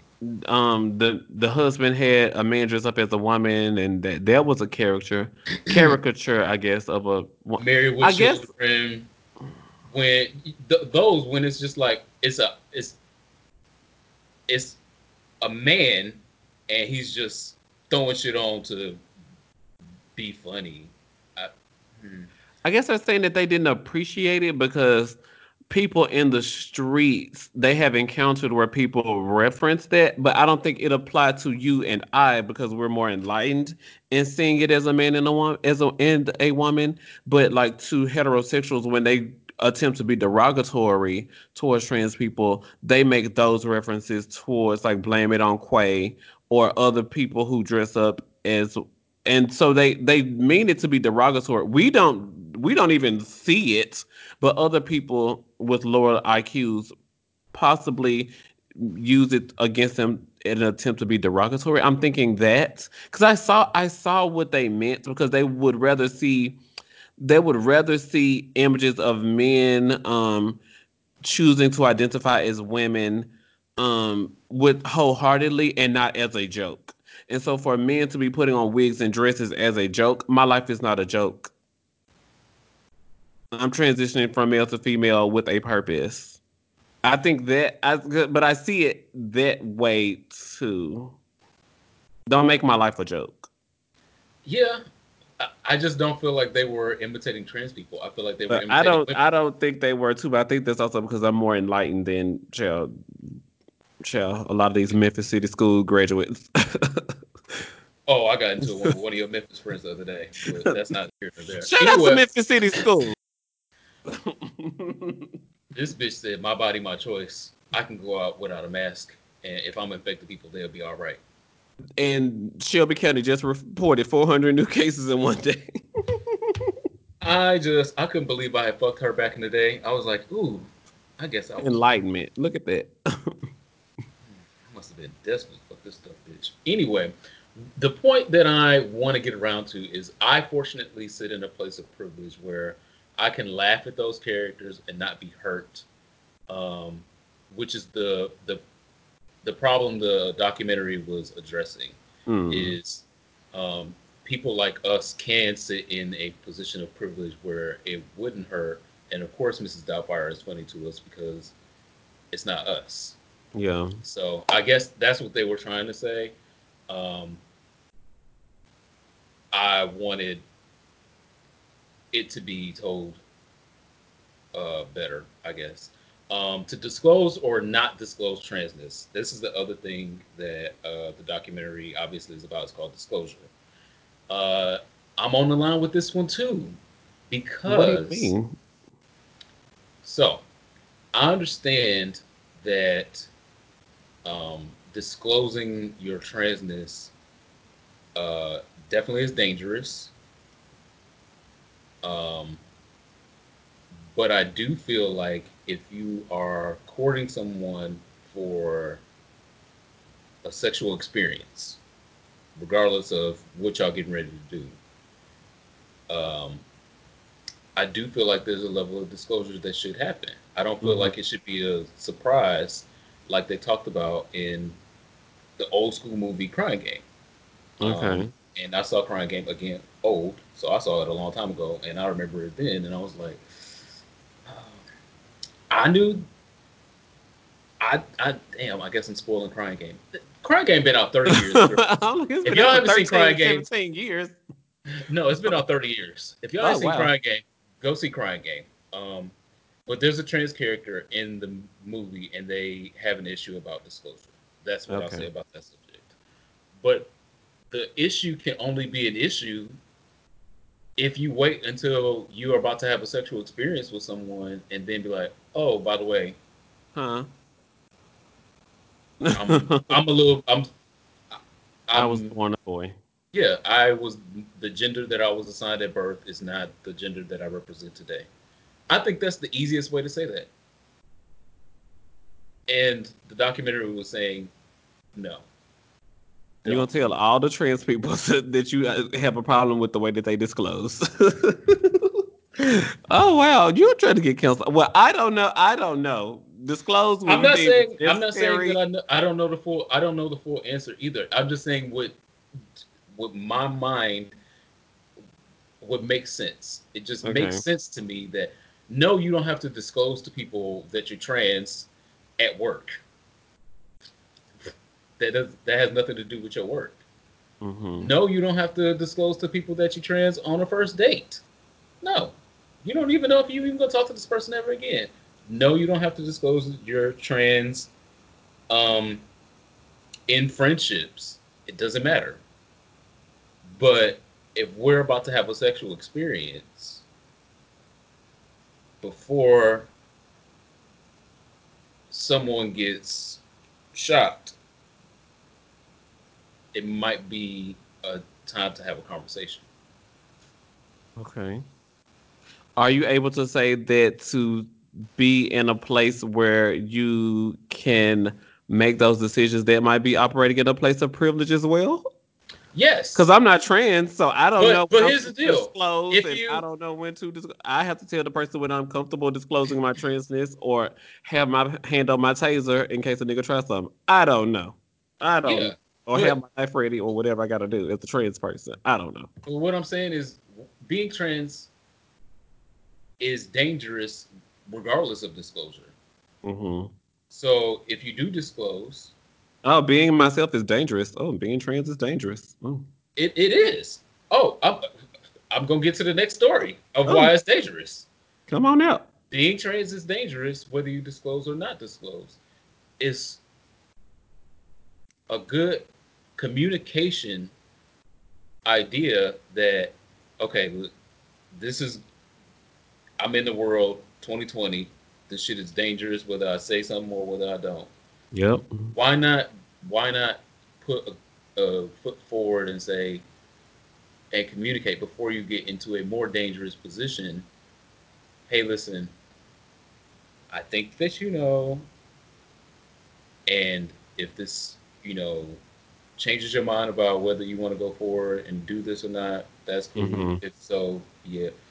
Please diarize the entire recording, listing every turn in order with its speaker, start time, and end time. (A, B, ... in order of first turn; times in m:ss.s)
0:00.2-0:08.5 A
0:07.6-0:09.1 B
0:09.9-0:13.0 B
0:14.5-0:14.8 B
0:15.4-0:19.0 B
0:20.2-0:22.3 B
0:22.6-0:25.2 A
0:25.7-0:56.9 A
0:57.5-1:06.6 A
1:07.2-1:10.6 A
1:11.2-1:21.5 A
1:23.5-1:26.4 A
1:27.0-1:31.2 A
1:32.3-1:33.5 A
1:34.4-1:34.8 B
1:35.4-1:39.2 B
1:38.5-1:43.4 A
1:44.0-1:47.6 A
1:48.1-1:52.2 B
1:51.6-1:53.1 A
1:54.1-1:55.3 A
1:55.7-2:01.2 B
2:02.0-2:06.7 A
2:07.2-2:11.8 B
2:11.6-2:13.4 A
2:14.7-2:25.8 B
2:26.5-2:28.6 B
2:29.4-2:41.5 B
2:32.3-2:32.7 A
2:42.3-2:43.2 B
2:43.5-2:44.0 A
2:44.0-2:46.3 B
2:46.9-2:47.4 B
2:49.5-2:50.4 B
2:52.1-2:53.2 B
2:54.5-3:03.5 B
3:04.3-3:06.8 B
3:07.3-3:08.3 B
3:07.7-3:08.6 A
3:10.0-3:10.4 B
3:11.1-3:13.3 B
3:14.2-3:17.1 B
3:18.1-3:20.1 B
3:22.0-3:22.6 B
3:24.1-3:29.0 B
3:30.4-3:31.8 B
3:32.6-3:34.8 B
3:36.1-3:36.6 B
3:37.8-3:44.8 B
3:40.8-3:41.1 A
3:45.6-3:47.0 B
3:47.8-3:48.3 A
3:47.8-3:53.4 B
3:54.4-3:54.8 B
3:55.7-3:56.2 B
3:57.8-4:01.9 B
4:01.3-4:04.4 A
4:02.4-4:03.6 B
4:05.0-4:09.3 B
4:06.6-4:07.1 A
4:09.8-4:16.1 B
4:14.9-4:15.2 A
4:16.8-4:17.1 B
4:17.7-4:19.7 B
4:21.0-4:26.4 B
4:26.9-4:27.3 A
4:29.2-4:29.9 A
4:29.3-4:30.7 B
4:31.9-4:32.3 B
4:31.9-4:33.0 A
4:33.3-4:38.3 B
4:38.9-4:40.5 B
4:42.7-4:44.5 B
4:45.1-4:45.4 B
4:46.6-4:47.1 B
4:46.6-4:58.8 A
4:57.2-5:02.2 B
5:03.1-5:04.3 B
5:05.8-5:13.0 B
5:07.2-5:07.6 A
5:15.2-5:17.0 B
5:17.6-5:18.1 A
5:18.0-5:21.4 B
5:22.0-5:27.9 B
5:28.7-5:29.2 B
5:30.3-5:32.4 B
5:33.8-5:37.0 B
5:39.0-5:39.9 B
5:42.1-5:43.4 B
5:43.9-5:44.5 B
5:46.7-5:49.6 B
5:51.2-5:51.6 A
5:52.8-6:02.1 A
6:02.7-6:03.3 B
6:03.1-6:19.3 A
6:04.6-6:06.6 B
6:15.4-6:16.4 B
6:19.4-6:21.7 B
6:23.2-6:25.9 B
6:26.4-6:26.9 A
6:27.3-6:29.1 B
6:29.6-6:32.8 A
6:33.2-6:34.8 B
6:35.5-6:38.1 B
6:37.1-6:37.3 A
6:38.5-6:39.1 A
6:39.3-6:42.4 B
6:43.0-6:43.4 B
6:45.3-6:47.5 B
6:48.6-6:50.9 B
6:51.5-6:52.0 B
6:53.2-6:57.9 B
6:58.3-6:58.9 A
6:58.9-7:03.2 B
7:04.3-7:07.5 B
7:08.5-7:09.1 B
7:10.5-7:11.8 B
7:13.5-7:15.6 B
7:16.2-7:21.5 B
7:19.9-7:20.4 A